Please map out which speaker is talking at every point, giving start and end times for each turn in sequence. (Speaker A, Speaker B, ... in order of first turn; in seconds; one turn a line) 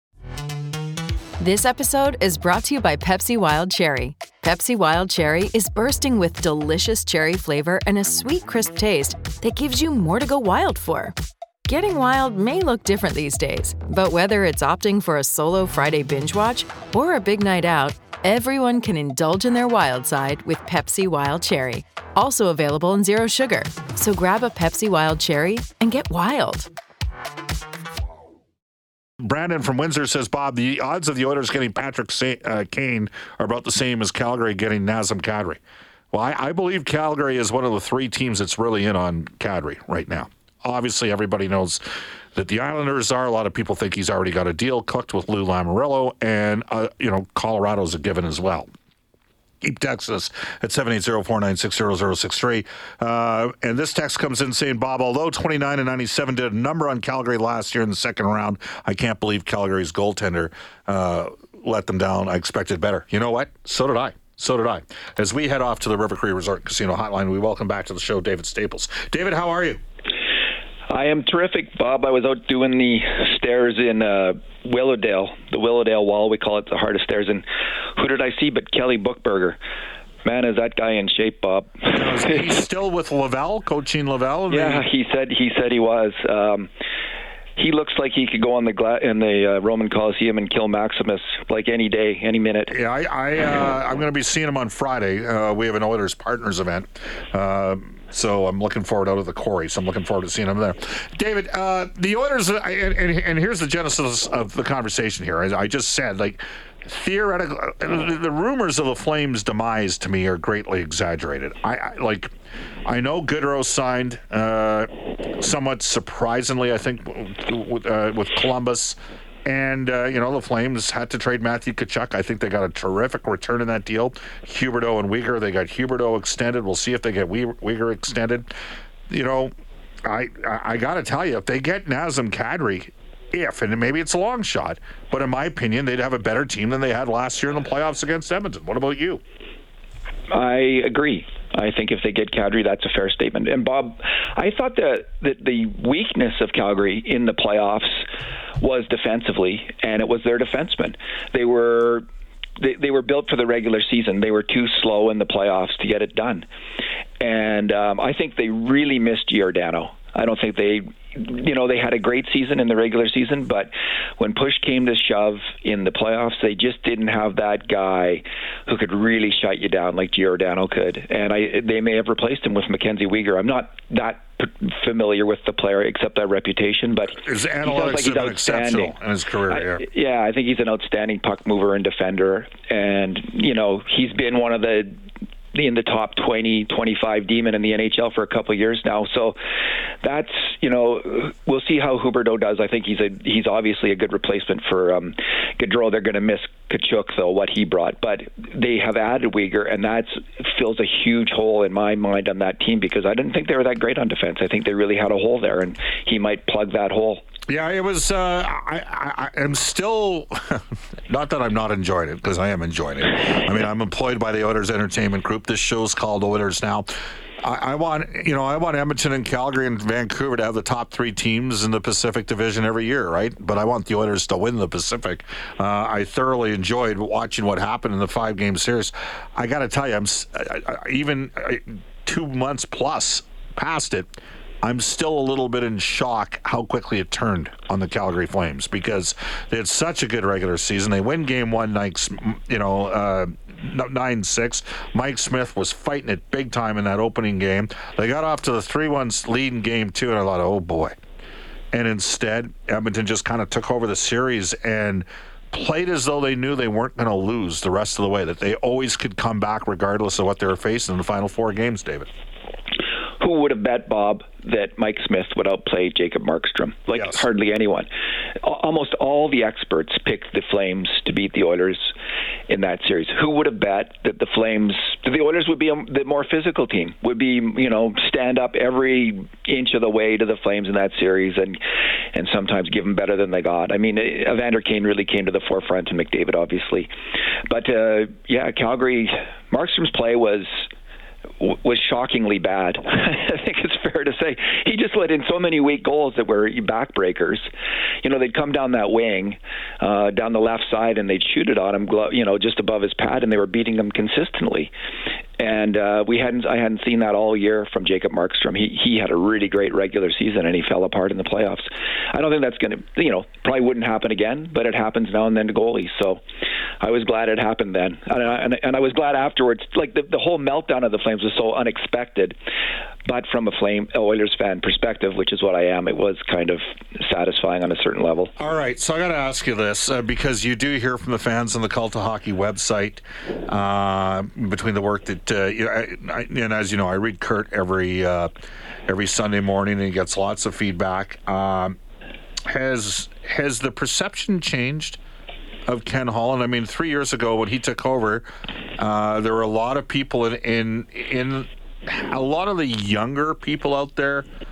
Speaker A: 1.4-11.1
Speaker A: 11.7-26.7
Speaker B: 29.2-35.6
Speaker B: 36.1-48.7
Speaker B: 49.6-69.8
Speaker C: 70.9-79.6
Speaker C: 80.2-82.4
Speaker B: 81.8-84.8
Speaker C: 84.5-86.7
Speaker C: 87.5-92.7
Speaker B: 92.7-112.3
Speaker B: 112.8-128.5
Speaker B: 129.1-129.5
Speaker B: 130.0-139.2
Speaker C: 140.3-148.1
Speaker C: 148.6-152.1
Speaker C: 152.6-156.4
Speaker C: 157.2-178.9
Speaker B: 177.2-179.8
Speaker C: 179.5-184.9
Speaker C: 185.5-189.3
Speaker C: 190.0-207.2
Speaker B: 207.5-216.9
Speaker B: 217.4-250.9
Speaker B: 251.7-262.1
Speaker C: 263.2-267.9
Speaker B: 266.9-267.2
Speaker C: 268.4-271.9
Speaker C: 272.5-281.6
Speaker C: 282.1-286.9
Speaker C: 287.4-290.6
Speaker C: 291.4-297.5
Speaker C: 298.0-304.7
Speaker C: 305.4-316.2
Speaker C: 316.8-322.4
Speaker C: 323.1-328.3
Speaker B: 328.4-338.3
Speaker B: 338.9-341.8
Speaker B: 342.5-345.0
Speaker B: 345.6-348.2
Speaker B: 348.8-354.3